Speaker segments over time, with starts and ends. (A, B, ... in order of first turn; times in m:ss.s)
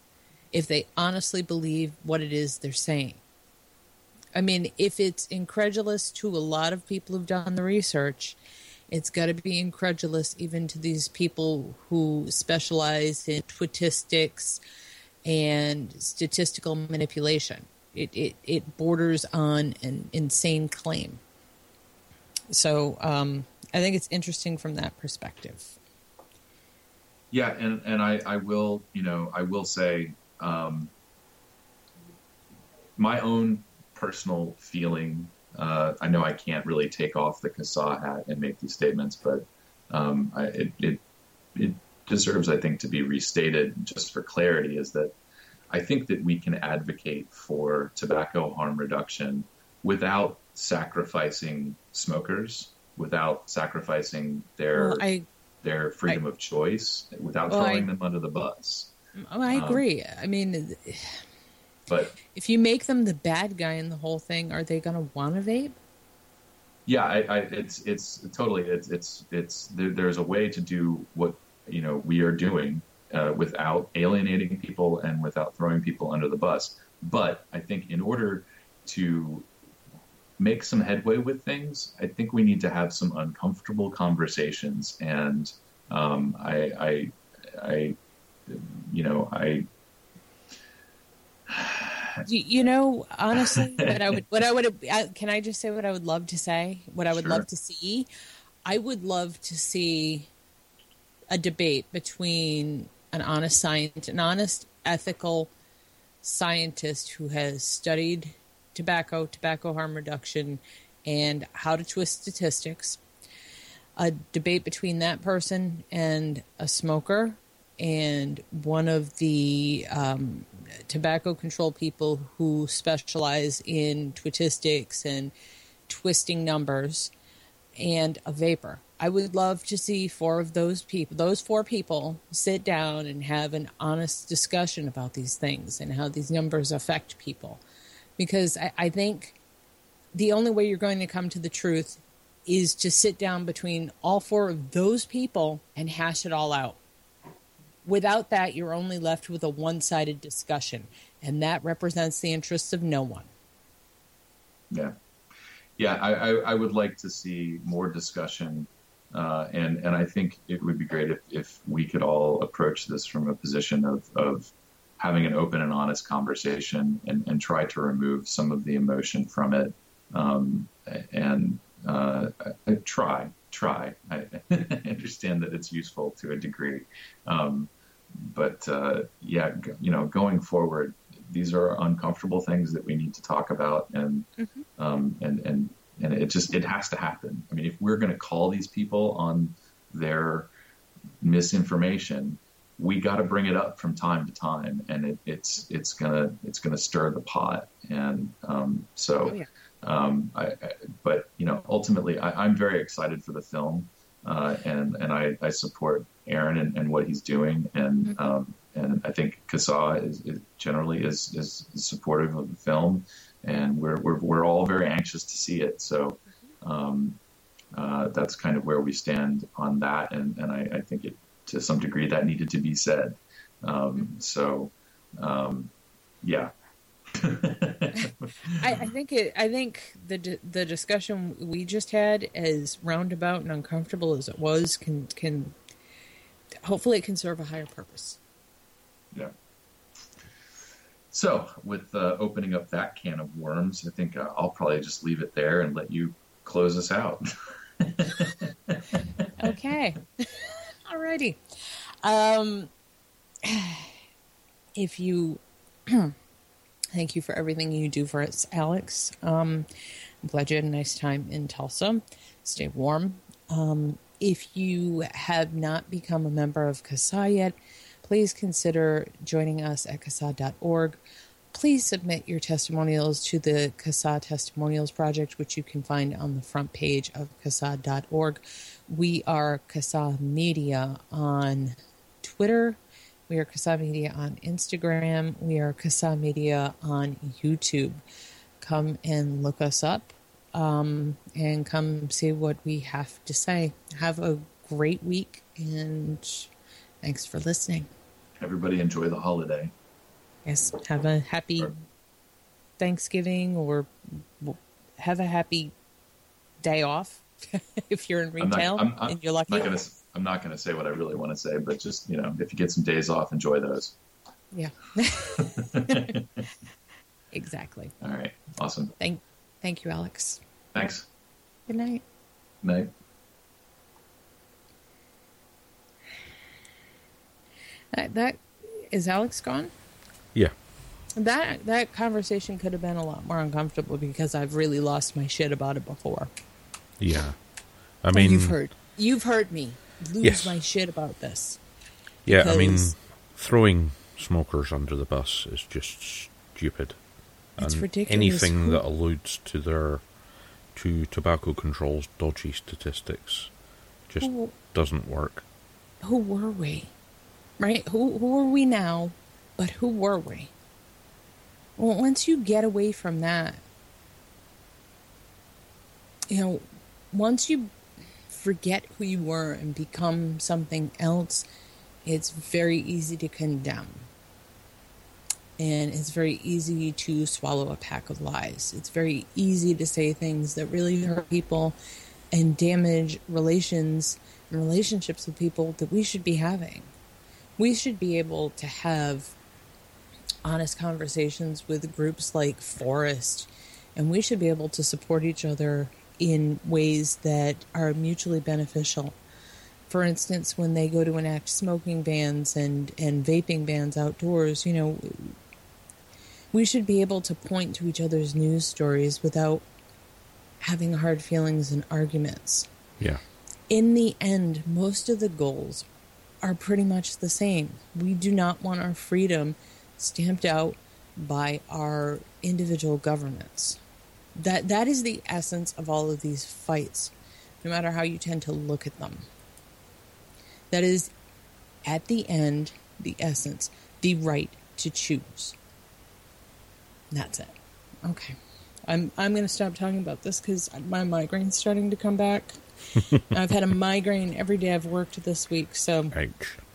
0:00.5-0:03.2 A
0:04.3-0:08.4 A
0:08.9-0:14.6 A
0:15.2-0:21.2 A
0:22.5-0:25.8 A
0:27.3-0:30.9 B
0:33.0-0:41.0 B
0:41.5-0:45.1 B
0:45.7-0:55.1 B
0:54.7-0:55.2 A
0:55.6-0:58.9 B
0:57.5-0:57.9 A
0:59.2-1:01.2 A
0:59.5-0:59.8 B
1:01.9-1:02.1 B
1:02.3-1:05.8 A
1:06.8-1:19.5 B
1:20.4-1:28.0 B
1:28.5-1:29.7 B
1:31.5-1:32.2 B
1:32.2-1:38.1 A
1:33.4-1:34.0 B
1:37.1-1:37.4 B
1:38.6-1:40.3 A
1:41.3-1:45.5 A
1:46.2-1:53.0 A
1:54.0-2:05.3 A
2:05.9-2:07.1 A
2:07.8-2:17.6 A
2:18.2-2:19.4 A
2:20.1-2:26.8 A
2:27.8-2:33.3 A
2:34.7-2:35.0 B
2:35.8-3:10.5 B
3:04.4-3:04.6 A
3:11.2-3:37.2 B
3:37.7-3:46.5 B
3:47.1-3:48.8 B
3:48.6-3:55.5 A
3:56.6-3:58.2 A
4:01.1-4:07.3 B
4:07.8-4:09.0 B
4:09.4-4:11.4 A
4:12.0-4:12.7 A
4:13.4-4:13.9 A
4:14.8-4:16.1 A
4:16.9-4:19.7 A
4:20.2-4:31.0 A
4:31.5-4:48.0 A
4:48.6-4:56.5 A
4:57.0-4:57.9 A
4:58.4-4:59.7 B
5:00.4-5:01.8 A
5:02.8-5:03.9 A
5:04.4-5:05.7 A
5:06.6-5:09.8 A
5:08.4-5:13.9 B
5:14.5-5:16.0 A
5:15.4-5:16.4 B
5:17.3-5:17.9 A
5:18.0-5:18.9 B
5:19.0-5:20.4 A
5:20.7-5:21.1 B
5:21.7-5:22.0 A
5:22.6-5:22.9 B
5:27.9-5:29.7 A
5:31.2-5:36.3 A
5:37.0-5:37.4 C
5:38.0-5:38.6 C
5:38.1-5:41.6 A
5:40.2-5:40.6 C
5:42.2-5:47.0 C
5:42.3-5:42.9 A
5:47.6-5:50.0 C
5:47.6-5:48.8 A
5:50.7-5:53.5 C
5:54.1-5:55.4 C
5:54.2-5:54.5 A
5:56.0-5:56.9 A
5:57.6-6:00.5 A
6:01.8-6:03.6 A
6:06.3-6:07.7 A
6:08.3-6:11.4 A
6:12.0-6:14.1 A
6:15.6-6:21.8 A
6:22.3-6:26.9 A
6:27.6-6:29.3 A
6:30.4-6:39.1 A
6:39.9-6:45.4 A
6:46.5-6:49.6 A
6:50.6-6:52.7 A
6:53.7-6:55.8 A
6:56.4-7:03.8 A
7:04.3-7:09.2 A
7:10.7-7:11.1 A
7:11.8-7:15.5 A
7:17.1-7:17.5 A
7:18.0-7:22.6 A
7:23.2-7:26.1 A
7:26.1-7:26.6 C